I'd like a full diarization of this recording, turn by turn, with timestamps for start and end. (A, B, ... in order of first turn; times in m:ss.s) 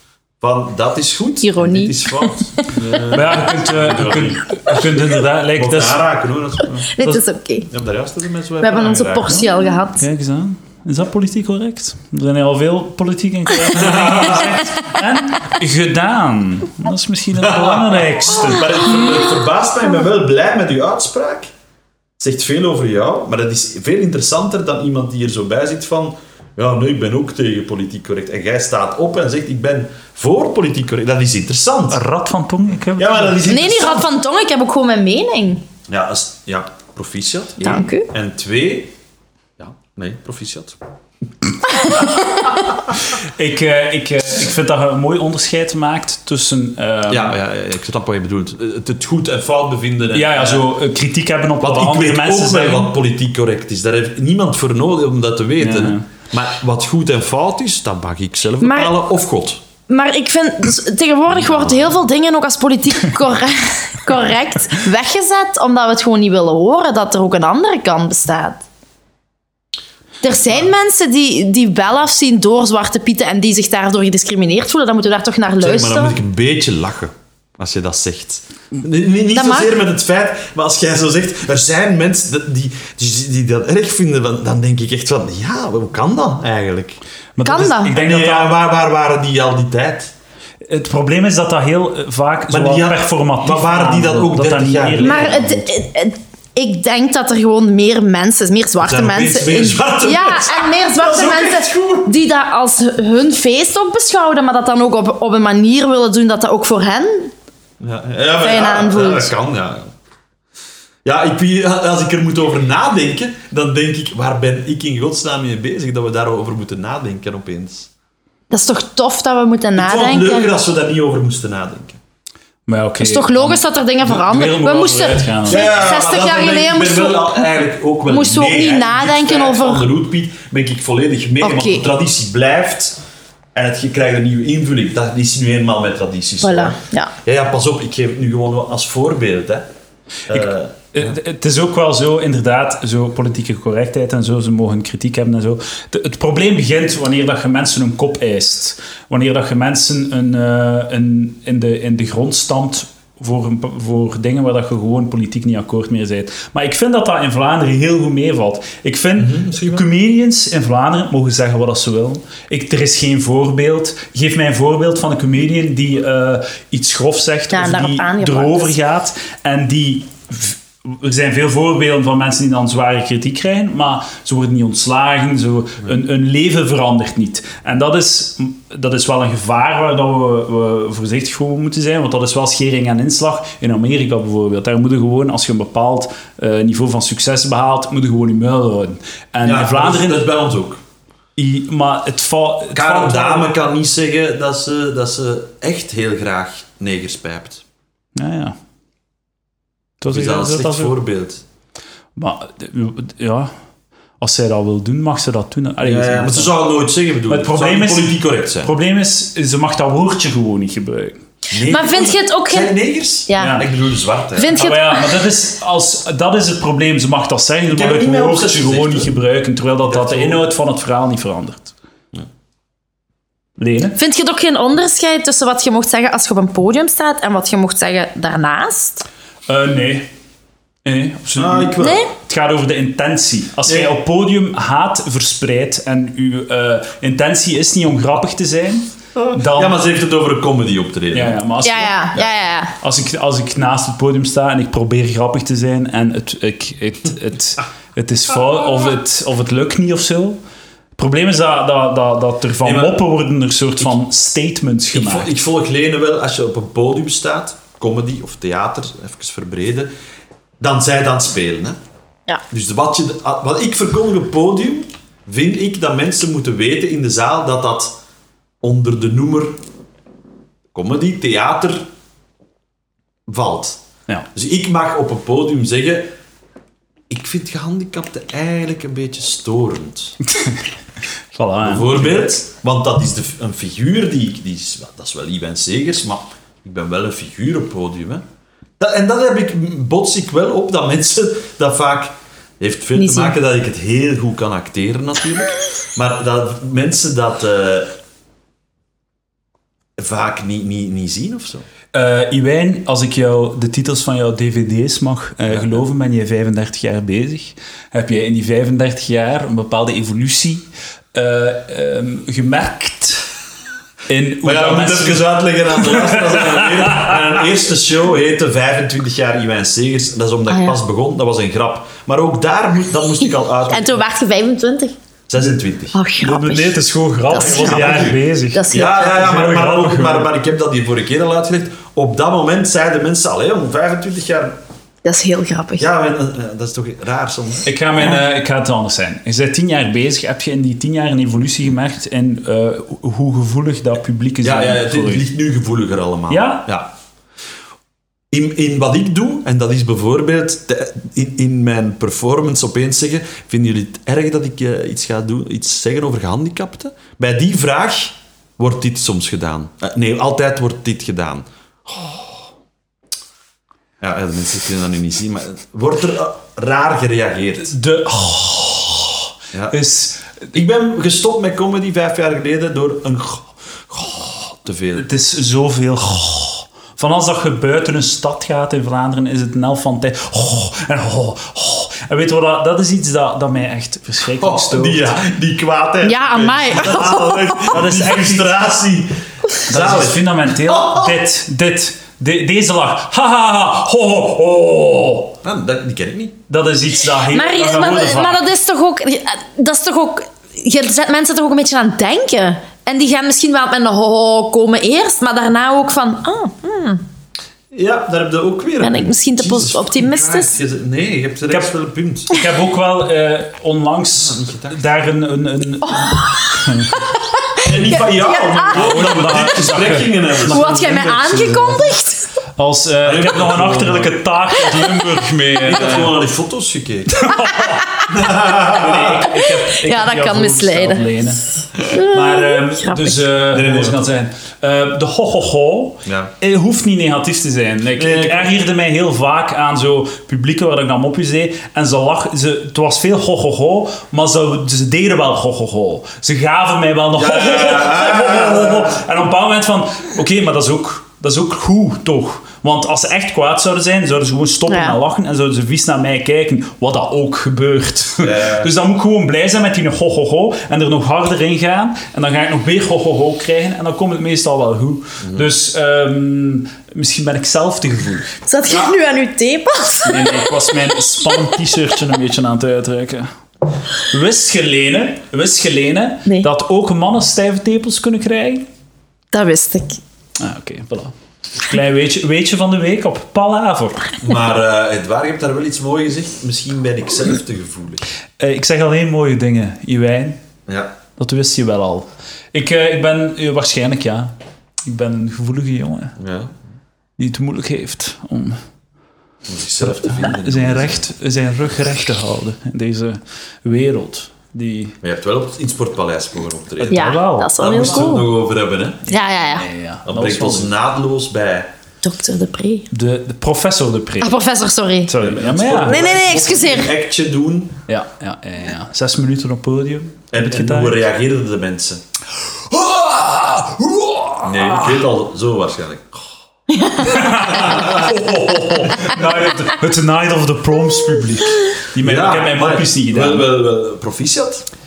0:00.4-0:05.0 A
0:01.4-0:03.0 B
0:03.1-0:06.0 C
0:05.6-0:06.9 A
0:06.8-0:07.7 B
0:07.7-0:09.4 A
0:08.6-0:10.1 B
0:09.3-0:19.3 C
0:13.7-0:14.6 A
0:17.3-0:21.5 A
0:22.2-0:32.0 A
0:31.9-0:33.4 C
0:33.0-0:34.1 A
0:33.4-0:35.6 B
0:35.9-0:38.9 A
0:37.6-0:38.1 B
0:39.6-0:40.8 A
0:41.9-0:42.2 B
0:43.0-0:47.4 C
0:47.1-0:50.7 A
0:50.1-0:52.9 C
0:51.6-0:59.6 A
0:55.6-0:56.1 C
0:58.6-0:59.0 B
0:59.9-1:08.6 B
1:01.3-1:02.0 A
1:10.2-1:16.2 B
1:10.3-1:10.7 A
1:15.6-1:27.0 A
1:19.3-1:19.7 B
1:27.4-1:28.5 C
1:27.4-1:28.0 B
1:27.9-1:30.1 A
1:30.7-1:35.6 C
1:32.5-1:35.5 A
1:35.0-1:47.3 B
1:38.8-1:42.1 A
1:47.8-1:49.9 A
1:48.4-1:49.3 B
1:51.0-1:57.9 A
1:58.5-2:00.5 B
1:59.8-2:02.0 A
2:02.7-2:05.6 C
2:03.0-2:07.5 B
2:05.5-2:13.0 A
2:08.1-2:09.9 B
2:11.4-2:11.9 B
2:13.5-2:19.7 A
2:16.4-2:17.1 B
2:20.3-2:21.2 A
2:20.3-3:10.3 C
2:39.2-2:39.8 A
2:47.5-2:48.7 B
3:09.4-3:10.8 A
3:11.4-3:13.5 C
3:12.7-3:17.6 A
3:18.2-3:18.6 C
3:20.0-3:21.0 C
3:20.1-3:21.4 A
3:22.2-3:23.5 C
3:24.2-3:26.6 C
3:25.8-3:28.7 A
3:27.3-3:31.2 C
3:31.5-3:34.7 A
3:31.6-3:33.7 B
3:33.4-3:33.7 C
3:34.4-3:35.2 B
3:34.5-3:41.7 C
3:37.7-3:39.1 A
3:39.8-3:40.5 A
3:43.6-3:44.0 C
3:44.0-3:49.0 B
3:49.5-3:50.1 C
3:50.8-3:59.8 C
3:51.4-3:52.1 A
3:51.8-3:52.1 B
3:53.7-3:53.9 A
3:59.2-4:01.4 A
4:01.1-4:02.2 C
4:01.6-4:02.8 B
4:02.8-4:10.4 C
4:11.0-4:15.3 C
4:12.6-4:13.0 A
4:14.9-4:19.9 A
4:20.6-4:21.8 A
4:22.5-4:28.0 A
4:28.6-4:29.6 A
4:30.7-4:31.9 A
4:33.3-4:33.8 A
4:34.3-4:36.1 A
4:37.1-4:40.2 A
4:40.3-4:40.6 C
4:41.3-4:42.3 C
4:41.6-4:48.2 A
4:48.8-4:57.9 A
4:53.0-4:53.4 B
5:00.0-5:01.7 A
5:01.9-5:13.3 C
5:05.5-5:05.8 A
5:14.1-5:17.2 C
5:14.4-5:24.0 A
5:20.5-5:20.8 B
5:23.7-5:25.0 B
5:25.3-5:26.0 A
5:25.9-5:26.8 B
5:26.2-5:30.3 C
5:27.3-5:29.1 B
5:27.4-5:34.6 A
5:35.0-5:35.9 B
5:35.8-5:37.7 A
5:37.6-5:45.3 C
5:44.4-5:46.9 A
5:46.3-5:46.6 C
5:48.3-6:02.5 A
6:04.0-6:07.7 A
6:07.6-6:10.5 C
6:10.5-6:15.1 A
6:15.0-6:25.2 C
6:24.4-6:31.1 A
6:26.0-6:27.8 B
6:26.8-6:28.5 C
6:29.7-6:35.4 C
6:35.4-6:36.4 A
6:36.5-6:38.4 C
6:37.2-6:47.0 B
6:47.7-6:52.3 A
6:48.8-6:50.6 B
6:52.3-6:57.1 C
6:54.2-6:54.8 A
6:55.8-6:59.0 B
6:57.6-7:01.4 A
6:58.7-7:01.9 C
7:00.4-7:02.3 B
7:02.6-7:06.1 C
7:03.0-7:04.2 A
7:05.6-7:07.2 A
7:07.2-7:48.4 C
7:07.6-7:08.0 B
7:08.1-7:09.3 A
7:09.3-7:11.1 B
7:11.9-7:13.2 B
7:13.5-7:14.0 A
7:16.1-7:16.3 A
7:18.0-7:18.5 A
7:27.2-7:29.1 A
7:34.7-7:35.0 B
7:38.2-7:38.7 A
7:45.2-7:45.5 A
7:48.5-7:51.3 B
7:50.0-7:53.3 C
7:54.0-7:58.7 C
7:59.3-8:00.0 B
8:00.4-8:04.1 C
8:04.2-8:08.1 A
8:08.4-8:10.4 C
8:10.7-8:10.9 A
8:11.2-8:14.3 C
8:14.8-8:16.2 C
8:16.2-8:16.6 A
8:17.2-8:18.6 C
8:19.5-8:21.1 A
8:19.8-8:25.0 C
8:25.0-8:29.1 A
8:26.8-8:28.2 C
8:26.9-8:28.3 B
8:29.1-8:29.7 B
8:29.4-8:30.7 C
8:30.1-8:31.7 A
8:32.0-8:32.9 B
8:32.9-8:34.4 C
8:34.2-8:35.1 B
8:35.1-8:36.4 C
8:35.2-8:37.8 A
8:35.8-8:36.9 B
8:37.9-8:41.0 C
8:40.3-8:42.0 A
8:42.7-8:45.0 C
8:44.4-8:46.2 A
8:47.0-8:53.5 C
8:47.3-8:49.3 A
8:52.0-8:54.7 A